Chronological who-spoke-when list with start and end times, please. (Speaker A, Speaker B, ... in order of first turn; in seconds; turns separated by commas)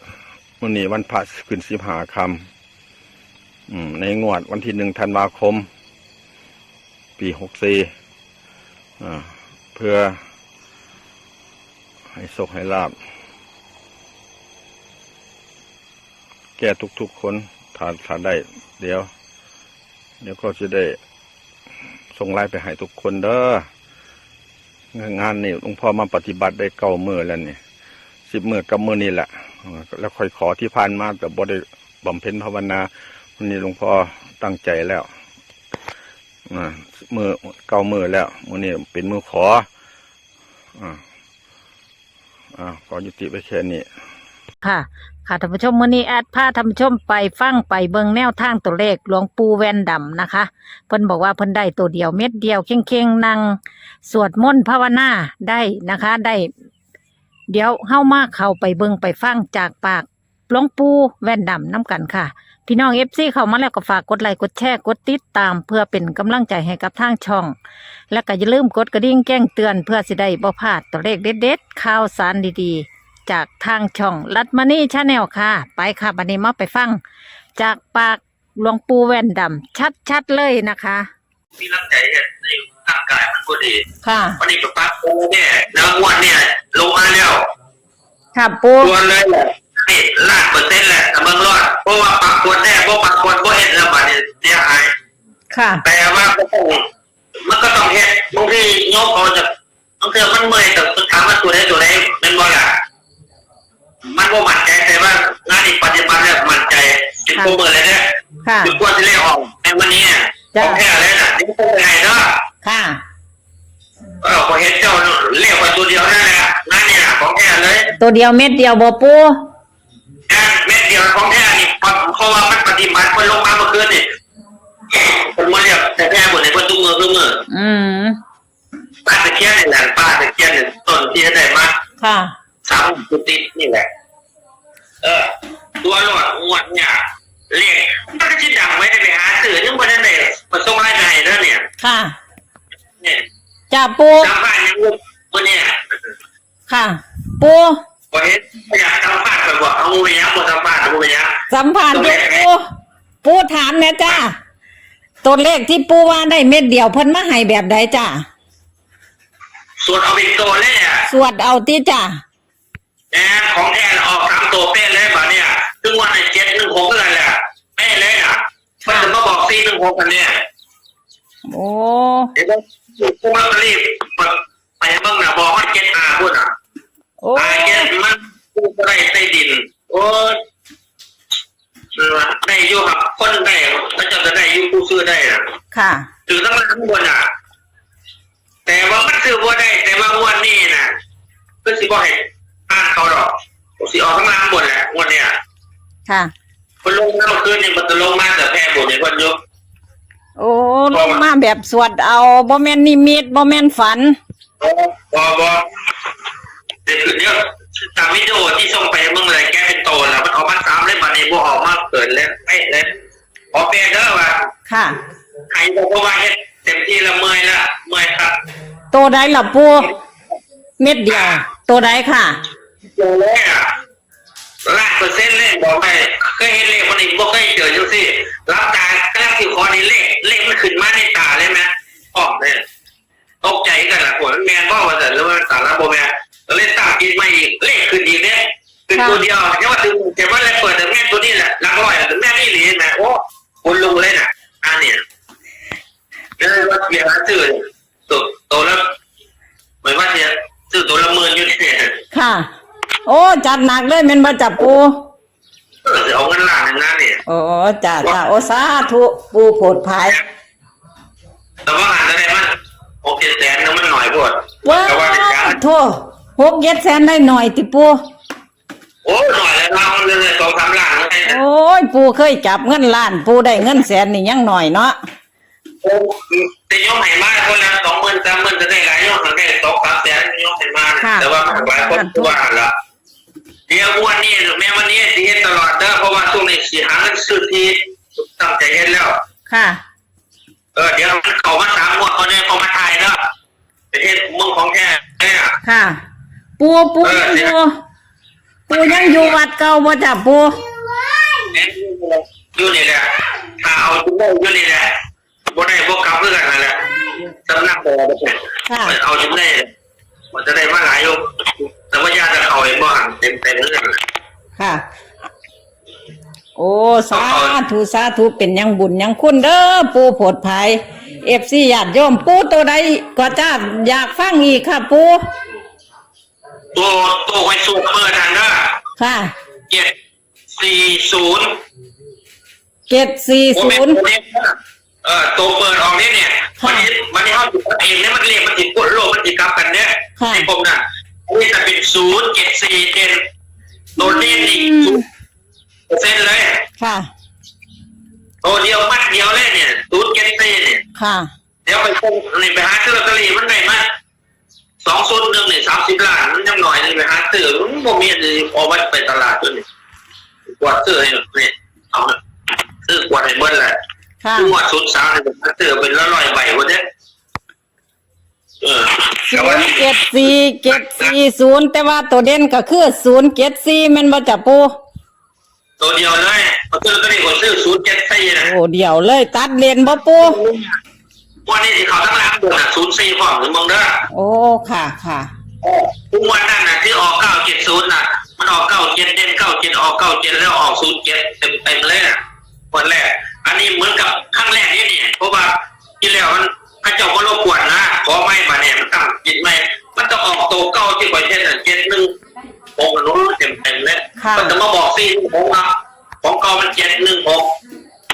Speaker A: 0.6-2.5, Speaker A: 3.7-5.7, Speaker A: 7.2-7.9, Speaker A: 9.0-10.2, Speaker A: 12.1-13.0, Speaker A: 16.6-19.1, Speaker A: 20.2-21.0, Speaker A: 22.1-23.7, Speaker A: 24.9-27.6, Speaker A: 28.2-35.1, Speaker A: 36.5-39.7, Speaker A: 40.8-41.0, Speaker A: 42.5-43.9, Speaker B: 44.6-56.5, Speaker B: 57.5-67.5, Speaker B: 68.1-77.0, Speaker B: 77.6-81.1, Speaker C: 81.6-83.8, Speaker B: 84.0-84.4, Speaker C: 84.4-87.5, Speaker B: 88.3-88.9, Speaker C: 88.8-94.9, Speaker B: 95.5-95.8, Speaker C: 95.8-96.8, Speaker C: 97.4-99.5, Speaker C: 100.0-102.8, Speaker C: 104.1-112.3, Speaker B: 108.4-108.7, Speaker B: 110.5-110.8, Speaker B: 112.6-113.0, Speaker C: 114.2-117.9, Speaker B: 118.0-119.4, Speaker C: 120.3-124.0, Speaker C: 124.9-127.4, Speaker B: 127.5-128.2, Speaker C: 129.0-131.8, Speaker B: 132.0-132.3, Speaker C: 132.6-133.9, Speaker C: 135.0-135.3, Speaker C: 135.8-141.6, Speaker B: 141.8-142.1, Speaker B: 143.7-144.3, Speaker C: 144.1-145.8, Speaker B: 146.7-147.8, Speaker C: 148.1-151.3, Speaker B: 151.5-152.6, Speaker C: 151.9-152.5, Speaker B: 153.2-154.3, Speaker B: 155.2-158.2, Speaker C: 159.8-161.0, Speaker B: 161.1-162.2, Speaker C: 163.1-170.3, Speaker B: 168.8-169.1, Speaker B: 171.5-172.3, Speaker C: 172.3-176.5, Speaker B: 177.2-177.9, Speaker C: 177.3-180.4, Speaker C: 181.9-185.4, Speaker B: 185.7-186.1, Speaker C: 186.3-187.2, Speaker C: 188.7-190.9, Speaker C: 191.6-195.3, Speaker B: 196.1-196.3, Speaker C: 196.8-199.4, Speaker B: 200.4-204.2, Speaker C: 200.9-201.2, Speaker C: 204.6-205.6, Speaker C: 206.8-212.9, Speaker C: 213.5-214.4, Speaker B: 214.7-215.0, Speaker C: 215.5-218.3, Speaker B: 218.9-219.9, Speaker B: 220.8-222.4, Speaker C: 222.8-223.7, Speaker C: 224.7-232.6, Speaker C: 233.4-245.0, Speaker B: 238.9-239.2, Speaker C: 246.4-248.8, Speaker C: 249.8-251.9, Speaker B: 252.1-252.5, Speaker B: 253.1-254.9, Speaker C: 255.8-257.2, Speaker B: 257.2-260.2, Speaker C: 261.6-262.5, Speaker C: 263.0-265.6, Speaker B: 264.6-267.9, Speaker C: 269.0-271.4, Speaker B: 271.2-274.9, Speaker C: 275.8-282.7, Speaker B: 281.0-282.3, Speaker C: 283.7-289.2, Speaker B: 289.5-289.8, Speaker C: 290.7-293.1, Speaker C: 293.9-295.5, Speaker B: 295.6-296.0, Speaker B: 296.6-297.7, Speaker C: 297.0-297.5, Speaker C: 298.7-299.4, Speaker B: 298.7-300.5, Speaker C: 301.5-303.1, Speaker C: 303.6-304.9, Speaker C: 305.5-306.8, Speaker C: 307.5-309.7, Speaker B: 308.7-308.9, Speaker C: 310.3-314.0, Speaker B: 314.6-314.8, Speaker B: 316.6-325.2, Speaker C: 317.1-317.6, Speaker C: 326.7-328.8, Speaker B: 329.0-329.3, Speaker C: 330.5-331.6, Speaker B: 332.9-334.0, Speaker C: 333.5-343.2, Speaker B: 336.6-336.9, Speaker B: 340.2-340.5, Speaker C: 344.0-345.0, Speaker B: 344.0-345.0, Speaker C: 345.9-346.6, Speaker B: 346.8-347.1, Speaker C: 348.4-350.8, Speaker B: 350.9-351.3, Speaker C: 351.6-353.8, Speaker C: 354.8-359.6, Speaker C: 360.5-362.2, Speaker C: 362.9-363.7, Speaker B: 364.2-364.5, Speaker C: 364.4-366.8, Speaker C: 368.6-371.1, Speaker B: 369.3-374.7, Speaker C: 375.8-378.5, Speaker B: 378.4-380.4, Speaker C: 380.1-380.8, Speaker C: 381.4-383.9, Speaker B: 384.1-385.3, Speaker C: 385.6-392.2, Speaker C: 392.7-402.1, Speaker C: 402.8-405.7, Speaker B: 404.2-404.6, Speaker C: 406.2-407.5